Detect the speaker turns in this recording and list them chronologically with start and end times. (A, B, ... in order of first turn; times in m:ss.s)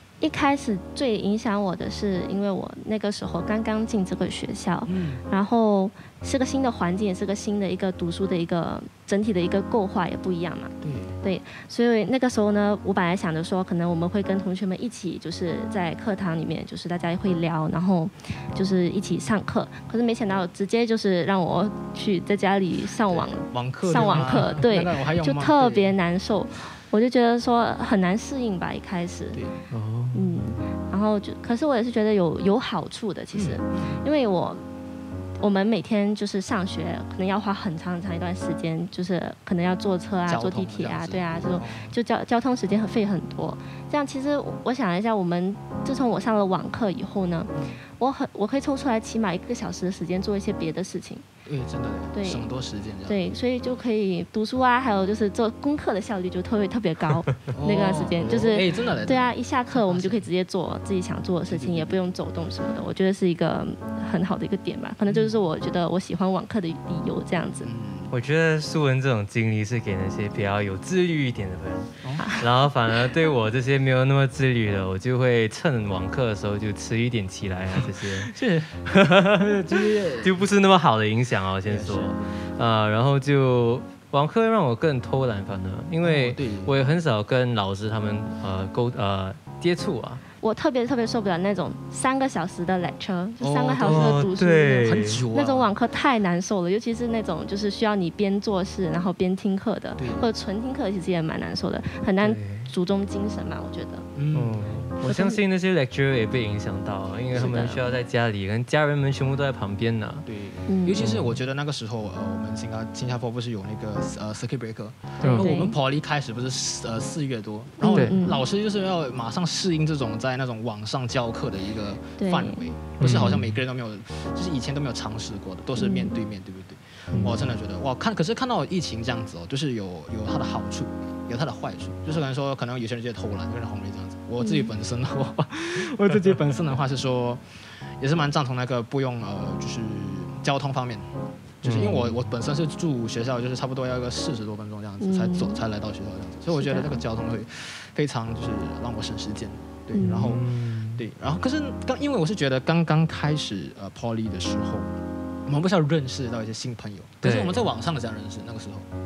0:00.2-0:29.4 A
0:04.9-0:05.2 B
0:10.8-0:11.2 B
0:23.1-0:26.0 B
0:23.9-0:24.7 C
0:29.3-0:29.6 B
0:29.7-0:30.7 C
0:30.1-0:34.6 A
0:33.3-0:34.0 B
0:35.4-0:51.2 A
0:40.3-0:42.0 B
0:47.5-0:47.8 B
0:51.4-0:53.3 B
0:52.1-0:52.5 A
0:53.1-1:07.7 A
0:57.5-1:00.3 B
1:01.5-1:02.0 B
1:05.1-1:05.4 B
1:07.6-1:08.2 B
1:08.1-1:18.3 C
1:12.0-1:12.3 B
1:12.2-1:12.4 A
1:18.0-1:20.5 B
1:18.9-1:19.5 C
1:20.2-1:30.2 C
1:21.6-1:22.5 B
1:26.0-1:26.8 B
1:30.4-1:44.1 A
1:33.4-1:35.7 B
1:33.8-1:35.2 C
1:40.0-1:40.3 B
1:42.2-1:42.7 C
1:44.2-1:44.7 B
1:44.3-1:50.2 C
1:45.0-1:45.4 A
1:47.3-1:47.7 B
1:47.3-1:47.8 A
1:50.2-2:17.4 B
1:50.7-1:51.0 A
1:51.0-1:51.4 C
1:55.2-1:55.6 C
1:55.2-1:55.8 A
1:57.8-1:58.4 A
1:57.9-1:58.2 C
2:02.2-2:02.7 A
2:03.0-2:03.6 C
2:05.8-2:06.2 A
2:07.1-2:07.5 C
2:14.4-2:14.7 A
2:18.0-2:21.1 B
2:21.6-2:30.4 B
2:21.6-2:22.2 C
2:25.0-2:25.6 A
2:26.5-2:27.0 A
2:29.9-2:30.2 A
2:30.0-2:31.0 C
2:31.0-2:34.9 B
2:35.5-2:38.9 B
2:37.2-2:37.7 C